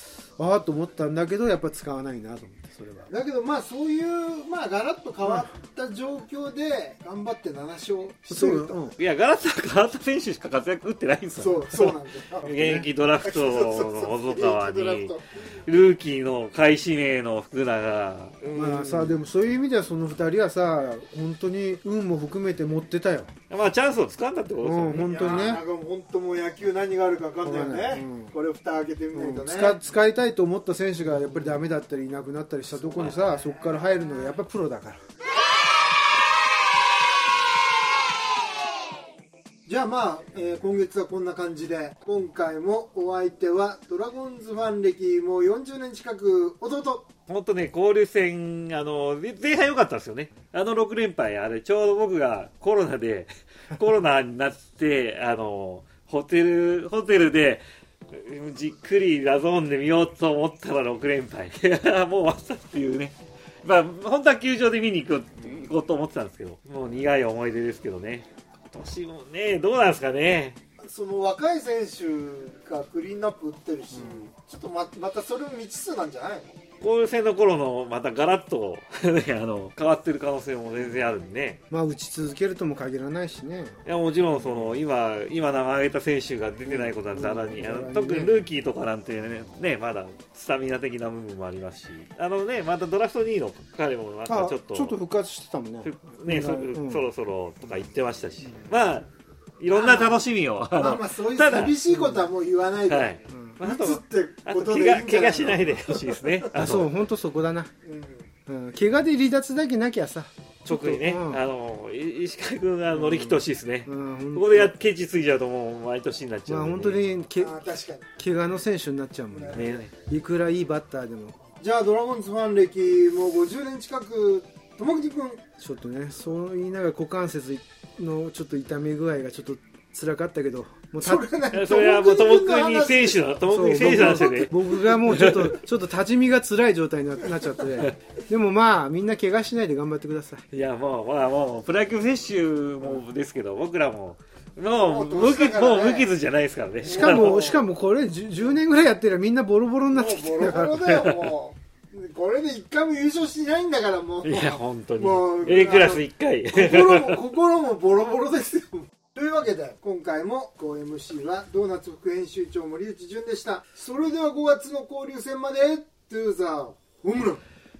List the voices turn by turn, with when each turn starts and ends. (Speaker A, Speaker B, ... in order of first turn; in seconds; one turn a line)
Speaker A: 0.4-3.1
Speaker B: 3.1-8.8
Speaker A: 5.2-5.5
Speaker A: 8.3-9.0
Speaker C: 9.0-19.2
Speaker B: 11.4-15.3
Speaker A: 11.4-11.8
Speaker A: 12.4-12.9
Speaker A: 18.5-23.3
Speaker C: 23.5-25.6
Speaker A: 24.6-25.6
Speaker B: 25.0-29.8
Speaker A: 27.4-28.3
Speaker A: 29.1-35.0
Speaker B: 32.8-34.0
Speaker C: 32.9-33.2
Speaker B: 39.6-47.1
Speaker C: 47.3-70.6
Speaker B: 70.8-76.5
Speaker A: 73.9-74.3
Speaker C: 76.8-81.6
Speaker A: 81.7-83.8
Speaker C: 83.8-95.0
Speaker A: 86.6-88.5
Speaker A: 94.2-97.1
Speaker C: 95.8-99.1
Speaker A: 98.4-98.7
Speaker C: 99.6-101.8
Speaker B: 99.7-103.1
Speaker A: 101.9-102.3
Speaker C: 102.9-106.9
Speaker A: 103.3-103.6
Speaker B: 103.6-106.4
Speaker A: 106.5-107.7
Speaker B: 107.8-108.3
Speaker A: 108.5-111.4
Speaker C: 110.7-117.1
Speaker A: 112.9-114.7
Speaker A: 116.5-117.6
Speaker B: 117.4-118.1
Speaker A: 118.2-121.4
Speaker B: 119.3-119.9
Speaker C: 119.5-119.9
Speaker B: 121.6-125.4
Speaker A: 125.6-131.3
Speaker B: 131.0-134.4
Speaker C: 131.5-135.6
Speaker A: 133.5-140.4
Speaker C: 140.5-147.6
Speaker B: 144.7-146.1
Speaker B: 146.8-147.6
Speaker A: 146.8-150.9
Speaker B: 149.9-167.4
Speaker C: 150.8-151.3
Speaker C: 154.2-157.2